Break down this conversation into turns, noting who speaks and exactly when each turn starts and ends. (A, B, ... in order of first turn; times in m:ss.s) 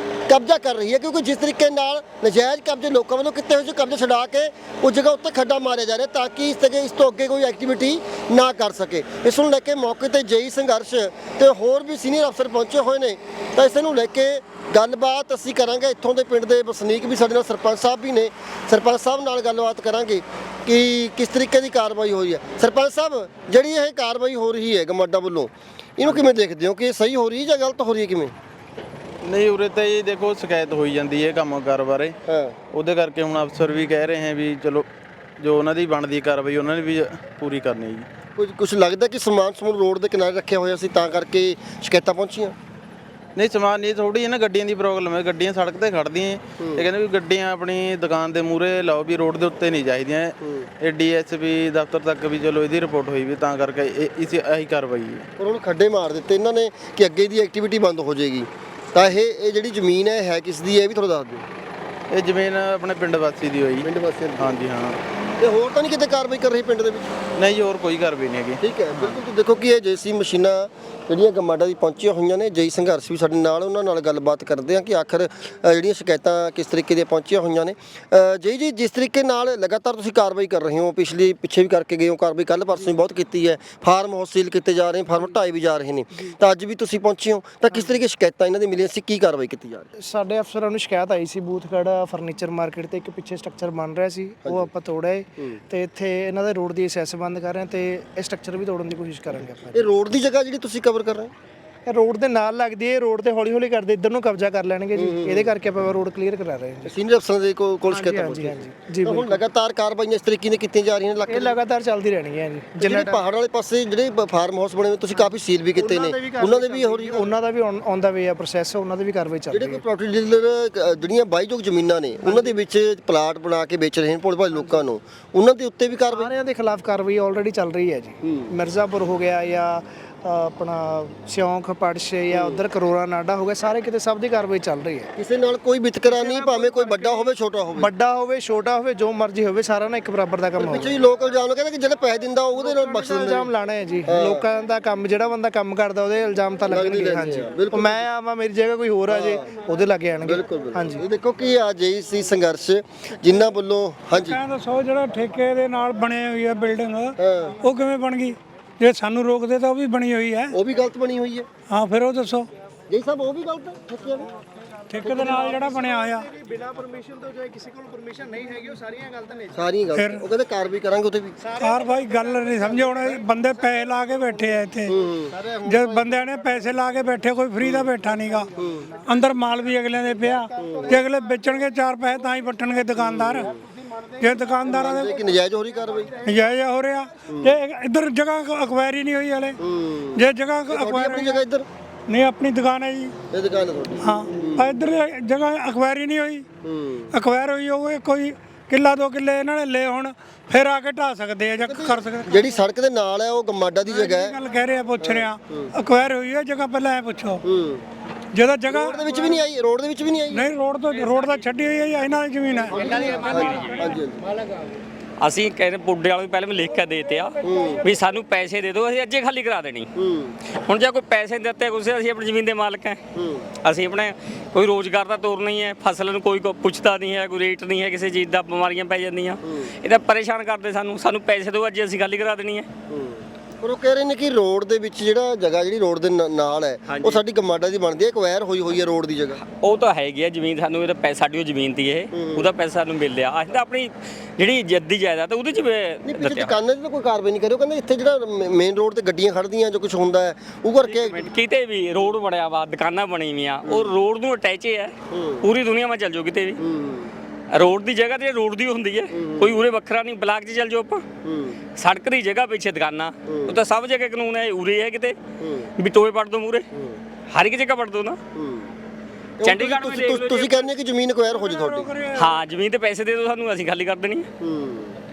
0:00.3-0:28.3 A
0:26.0-0:26.3 B
0:29.2-0:32.2 B
0:32.3-0:32.6 A
0:32.7-0:34.9 B
0:35.4-0:38.1 B
0:38.4-0:42.5 A
0:43.4-0:55.3 B
0:46.6-0:46.8 A
0:50.4-0:50.7 A
0:55.4-1:01.4 A
1:02.1-1:05.0 B
1:03.8-1:04.5 A
1:05.4-1:07.2 A
1:07.4-1:09.2 B
1:08.6-1:29.9 A
1:30.0-1:39.9 C
1:34.4-1:34.7 A
1:39.7-1:41.3 A
1:41.8-1:46.9 C
1:45.0-1:45.5 A
1:46.8-1:51.6 A
1:47.9-1:49.4 C
1:51.3-1:53.2 C
1:52.8-1:57.3 A
1:55.2-1:59.8 C
1:59.5-2:06.3 A
2:02.2-2:02.5 C
2:06.1-2:15.1 C
2:08.2-2:08.5 A
2:12.3-2:12.6 A
2:15.2-2:17.9 A
2:16.1-2:20.9 C
2:20.6-2:23.5 A
2:22.6-2:31.0 C
2:24.1-2:24.4 A
2:26.7-2:28.0 A
2:29.1-2:29.4 A
2:30.2-2:34.4 A
2:34.1-2:40.5 D
2:37.2-2:37.6 A
2:40.5-2:41.5 A
2:41.7-2:42.5 D
2:42.9-2:44.3 A
2:44.9-2:46.2 D
2:45.0-2:45.5 A
2:45.2-2:49.6 C
2:49.5-2:51.4 A
2:49.9-2:50.2 D
2:51.4-2:54.1 C
2:51.6-2:54.9 D
2:54.9-2:55.7 A
2:55.6-2:58.5 D
2:57.6-2:57.9 A
2:58.6-2:58.9 A
2:59.0-3:03.5 D
3:00.6-3:01.0 A
3:03.0-3:03.5 A
3:04.2-3:05.2 D
3:04.6-3:06.1 A
3:06.2-3:09.6 D
3:07.3-3:07.6 A
3:09.6-3:11.7 A
3:10.1-3:11.4 D
3:12.1-3:13.1 D
3:13.3-3:14.7 A
3:14.0-3:16.4 D
3:16.6-3:17.1 A
3:17.1-3:22.6 D
3:21.6-3:24.4 A
3:23.8-3:27.4 D
3:25.0-3:25.7 A
3:27.4-3:27.8 A
3:28.3-3:29.4 D
3:28.7-3:30.5 A
3:30.3-3:33.8 D
3:32.7-3:34.2 A
3:32.8-3:33.8 E
3:35.2-3:39.9 E
3:37.4-3:37.8 A
3:40.0-3:40.3 A
3:40.6-3:43.0 E
3:43.1-3:43.5 A
3:43.6-3:52.7 E
3:49.4-3:49.7 A
3:52.9-3:59.4 A
3:56.9-3:57.2 E
3:59.5-4:06.5 E
4:02.1-4:02.5 A
4:06.0-4:11.2 A
4:10.8-4:16.6 E
4:13.6-4:13.9 A
4:15.1-4:15.5 A
4:16.6-4:17.1 A
4:17.5-4:21.0 E
4:19.1-4:19.6 A
4:21.2-4:21.6 A
4:21.8-4:25.2 E
4:23.2-4:23.6 A
4:25.4-4:25.7 A
4:25.8-4:26.7 E
4:27.3-4:28.2 E
4:28.4-4:28.7 A
4:29.4-4:31.9 A
4:29.4-4:30.7 E
4:31.3-4:32.4 D
4:32.2-4:34.3 E
4:34.4-4:35.0 A